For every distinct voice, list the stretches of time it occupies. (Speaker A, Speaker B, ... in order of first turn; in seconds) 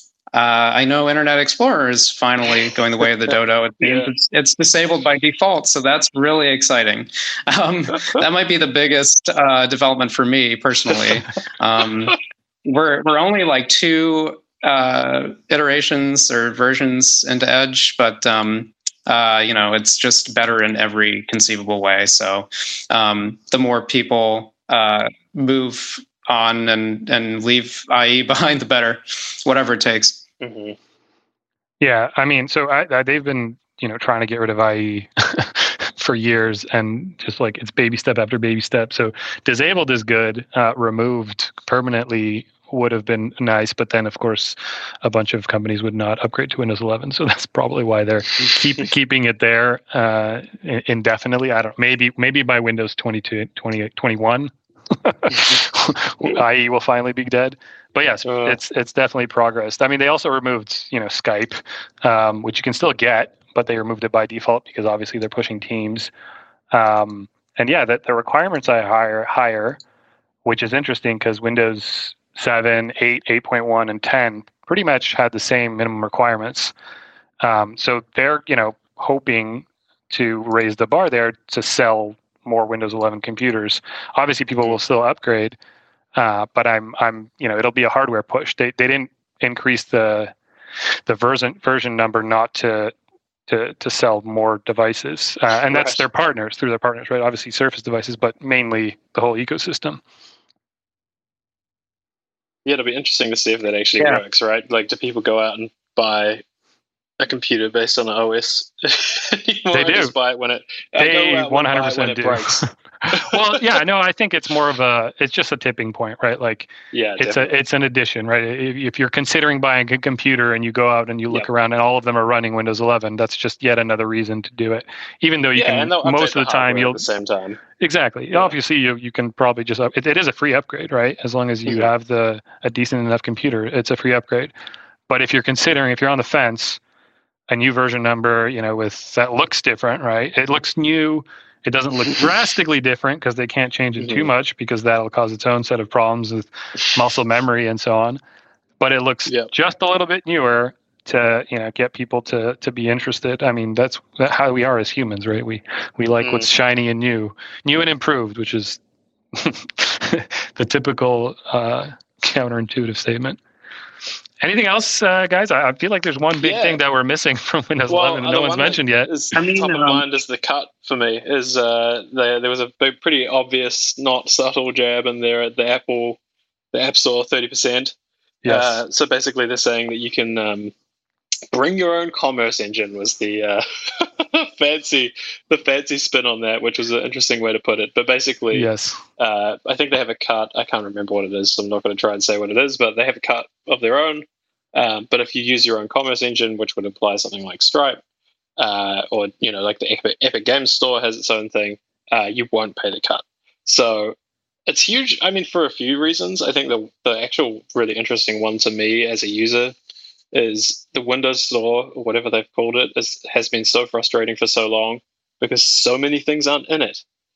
Speaker A: 0.3-30.2, 169.3-170.0
Speaker B: 3.8-4.1, 30.4-30.8, 55.3-55.6, 58.2-58.6, 95.7-96.0, 102.6-106.4, 107.2-113.8, 116.9-117.5, 125.5-127.6, 131.7-131.9, 144.0-144.3, 149.2-149.5, 156.2-156.5, 166.4-166.8, 167.9-176.2, 176.7-177.9, 178.4-180.7, 181.5-198.0, 198.6-204.2, 204.7-209.7, 210.3-217.0
Speaker C: 31.8-54.5, 55.0-66.1, 66.7-69.8, 70.4-76.7, 77.4-85.5, 86.2-90.3, 91.0-92.9, 93.5-100.0, 109.7-110.1, 111.0-127.0, 127.8-134.5, 135.1-136.8, 137.5-148.2, 148.8-158.8, 159.3-163.4, 164.4-169.1, 178.4-178.8, 188.5-189.0